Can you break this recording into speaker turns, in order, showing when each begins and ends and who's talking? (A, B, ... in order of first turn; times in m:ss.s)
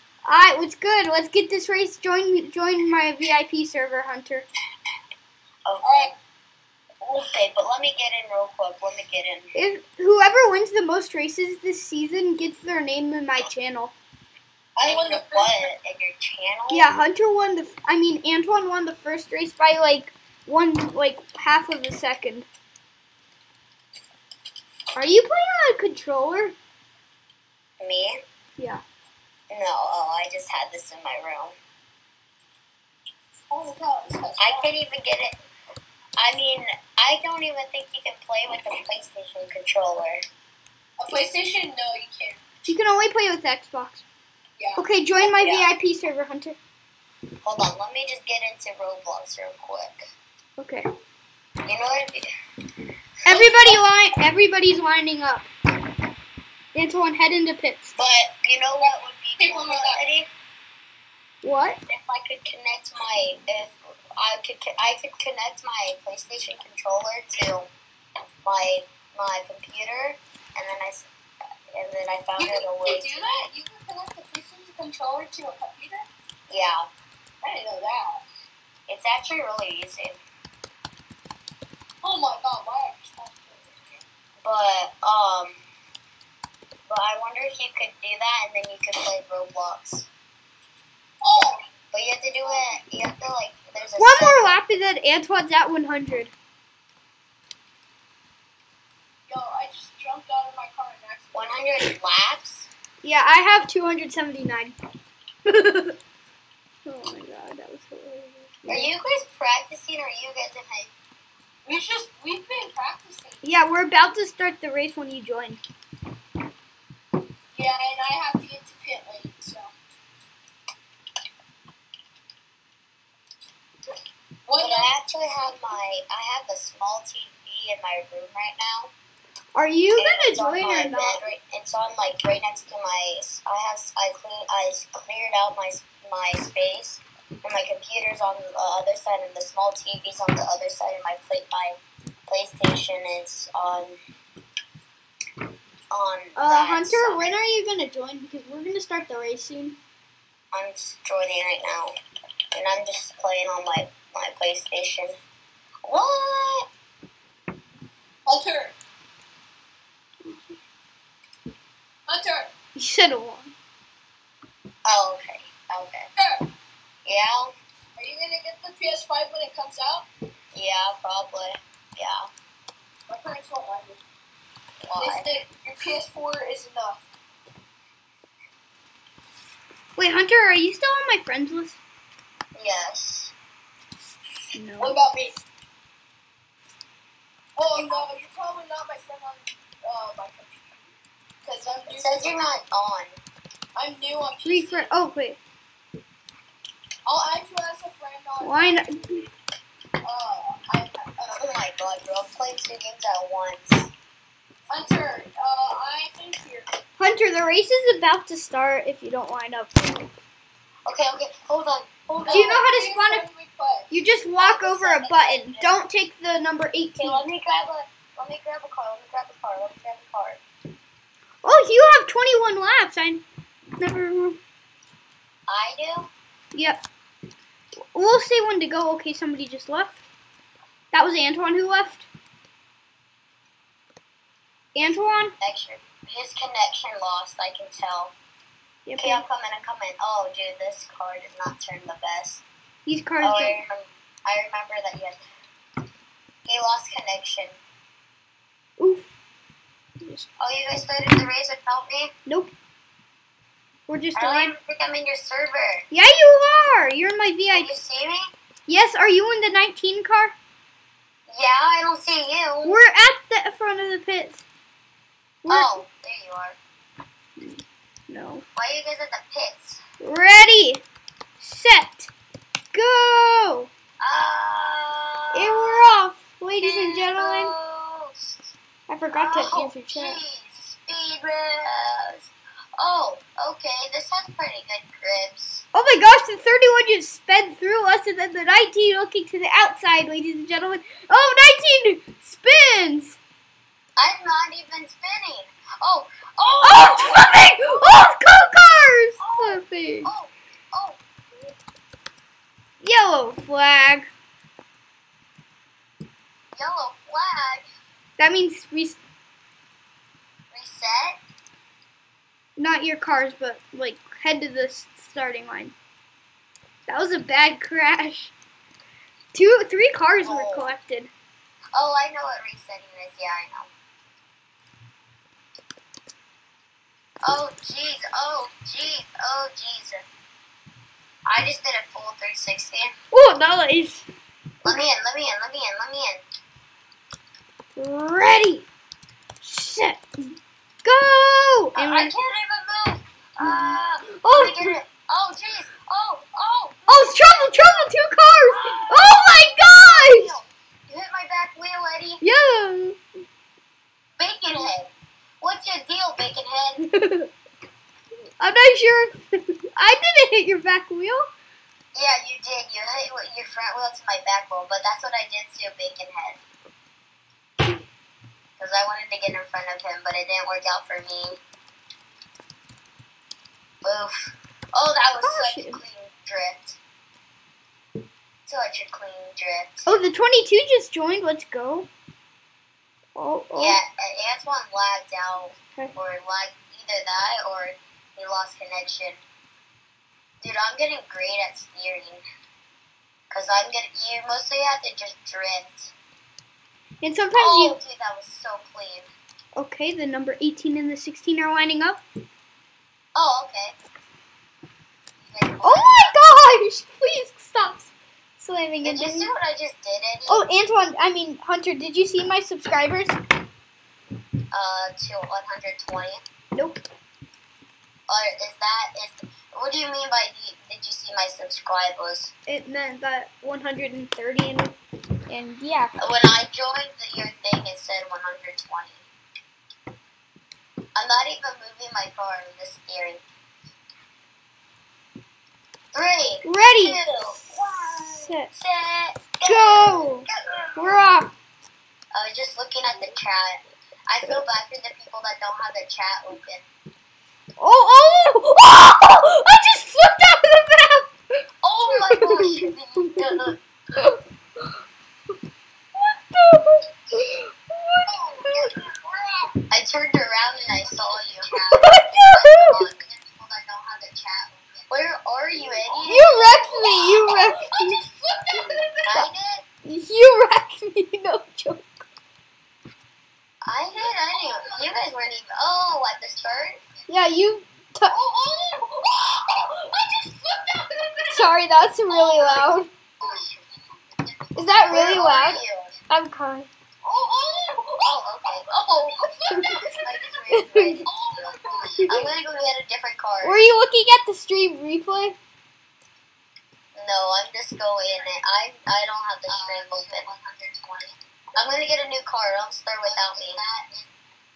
0:00.3-0:04.5 A
0:05.7-0:06.1 B
0:05.8-0:06.1 C
0:07.0-0:09.5 B
0:09.6-0:14.0 A
0:14.8-0:15.7 C
0:14.8-0:17.0 B
0:16.7-0:22.5 A
0:25.0-0:26.6 A
0:27.8-0:28.2 B
0:29.5-0:31.6 B
0:33.5-0:34.7 C
0:34.4-0:35.4 B
0:36.2-0:40.2 B
0:41.0-0:42.4 C
0:42.7-0:44.0 A
0:44.6-0:44.8 C
0:44.8-0:46.6 A
0:47.4-0:50.0 B
0:50.6-0:50.9 A
0:51.7-0:52.3 B
0:53.3-0:55.5 A
0:53.3-0:53.8 B
0:56.7-0:58.0 A
0:58.0-1:00.3 B
0:59.4-1:00.0 C
1:01.4-1:01.8 A
1:01.9-1:07.7 B
1:08.4-1:11.1 B
1:11.7-1:13.1 B
1:12.4-1:16.1 C
1:16.5-1:16.9 B
1:17.4-1:18.2 C
1:18.9-1:20.2 B
1:22.0-1:23.8 C
1:24.4-1:25.6 B
1:26.9-1:30.1 B
1:31.2-1:31.7 C
1:31.9-1:34.6 B
1:34.0-1:36.3 A
1:39.3-1:41.8 C
1:41.3-1:42.7 B
1:43.0-1:44.8 A
1:45.5-1:46.0 A
1:46.8-1:48.9 A
1:48.7-1:50.9 B
1:51.6-1:53.4 C
1:53.4-1:55.6 A
1:57.5-1:59.7 C
2:04.4-2:04.9 C
2:04.6-2:08.9 B
2:09.6-2:11.2 A
2:10.0-2:24.0 B
2:25.9-2:27.3 B
2:26.4-2:29.8 A
2:30.5-2:32.0 B
2:32.5-2:35.2 B
2:35.8-2:36.7 B
2:38.3-2:38.8 C
2:40.2-2:40.6 A
2:42.1-2:42.5 C
2:42.8-2:43.5 A
2:44.8-2:46.1 B
2:46.2-2:46.5 C
2:47.1-2:47.5 B
2:48.0-2:50.1 C
2:50.5-2:52.3 B
2:53.1-2:54.0 C
2:54.8-2:55.3 B
2:55.0-2:57.0 C
3:00.0-3:01.8 A
3:02.6-3:03.3 B
3:04.6-3:05.0 A
3:04.8-3:05.4 C
3:07.6-3:10.8 C
3:11.4-3:12.4 C
3:11.9-3:13.2 B
3:13.8-3:14.9 C
3:14.4-3:15.4 A
3:17.1-3:19.3 C
3:18.4-3:19.2 A
3:20.0-3:21.5 C
3:21.4-3:23.9 B
3:24.7-3:26.7 C
3:27.0-3:30.1 A
3:30.9-3:32.6 B
3:32.1-3:33.9 C
3:32.3-3:33.2 A
3:33.9-3:37.2 A
3:34.4-3:35.8 B
3:37.0-3:40.4 B
3:41.4-3:43.2 A
3:43.8-3:44.4 A
3:45.5-3:46.1 B
3:46.5-3:46.8 A
3:47.9-3:50.0 A
3:50.9-3:52.1 A
3:54.8-3:55.4 A
3:55.4-3:58.1 B
3:58.9-3:59.2 A
3:59.0-4:02.4 B
4:02.9-4:03.6 A
4:03.2-4:05.2 B
4:06.5-4:07.6 B
4:08.8-4:09.1 A
4:10.0-4:10.3 A
4:10.4-4:12.1 B
4:12.3-4:12.5 A
4:13.9-4:14.5 A
4:14.2-4:15.9 B
4:15.9-4:17.7 A
4:17.5-4:18.3 B
4:18.7-4:20.4 A
4:21.3-4:22.8 B
4:22.6-4:24.4 A
4:25.4-4:25.8 A
4:25.5-4:26.6 B
4:27.4-4:28.4 A
4:28.6-4:29.8 B
4:30.0-4:30.8 A
4:31.4-4:32.1 A
4:32.7-4:33.7 A
4:34.0-4:35.9 B
4:35.3-4:37.5 A
4:36.6-4:38.5 B
4:38.9-4:40.2 A
4:39.1-4:45.6 B
4:45.7-4:53.2 A
4:54.0-4:57.8 B
4:56.6-5:00.1 A
4:59.2-5:01.0 B
5:02.8-5:04.1 A
5:06.6-5:07.7 B
5:08.2-5:09.0 A
5:10.5-5:11.2 B
5:12.6-5:15.7 A
5:16.9-5:18.3 A
5:19.3-5:21.1 A
5:20.2-5:20.7 B
5:21.7-5:23.7 B
5:27.2-5:30.0 B
5:31.3-5:32.9 B
5:33.1-5:34.0 A
5:34.6-5:36.2 B
5:37.8-5:38.7 A
5:39.4-5:42.2 A
5:41.8-5:47.9 B
5:43.4-5:44.8 A
5:46.9-5:50.4 A
5:48.5-5:52.2 B
5:52.2-5:53.0 A
5:54.2-5:56.8 B
5:56.8-5:57.3 A
5:58.4-6:01.3 A
6:02.0-6:06.4 B
6:08.6-6:11.4 B
6:13.8-6:16.8 B
6:15.2-6:15.8 A
6:18.5-6:19.9 B
6:19.9-6:21.9 A
6:23.2-6:23.8 A
6:23.6-6:29.2 B
6:30.4-6:32.2 B
6:33.3-6:35.9 B
6:37.0-6:37.8 A
6:37.3-6:39.1 B
6:39.6-6:42.0 A
6:43.2-6:43.8 B
6:45.2-6:46.2 B
6:45.6-6:49.3 A
6:48.8-6:50.4 B
6:50.3-6:53.2 A
6:54.5-6:56.2 B
6:56.6-6:56.8 A
6:58.1-7:02.3 B
7:02.5-7:04.8 A
7:05.3-7:05.9 A
7:06.0-7:09.0 B
7:11.0-7:13.2 B
7:15.9-7:21.0 B
7:16.4-7:18.5 A
7:19.4-7:21.3 A
7:22.1-7:26.7 B
7:27.6-7:31.1 A
7:31.6-7:33.6 B
7:31.9-7:34.2 A
7:37.1-7:38.7 A
7:38.1-7:39.6 C
7:38.4-7:38.7 B
7:39.7-7:46.6 B
7:41.5-7:42.8 A
7:46.1-7:48.0 A
7:46.7-7:49.1 C
7:48.5-7:49.3 A
7:49.1-7:49.6 B
7:49.8-7:51.9 A
7:53.6-7:56.9 B
7:54.0-7:54.9 C
7:57.1-7:58.1 A
7:58.1-8:01.4 C
8:01.3-8:02.9 A
8:02.3-8:02.6 C
8:03.2-8:05.9 B
8:04.6-8:06.7 A
8:07.0-8:10.1 C
8:08.0-8:09.1 B
8:09.5-8:11.1 A
8:10.0-8:13.7 B
8:11.0-8:12.2 C
8:11.9-8:12.3 A
8:13.4-8:15.4 A
8:17.0-8:23.8 B
8:19.5-8:20.5 C
8:23.1-8:23.8 C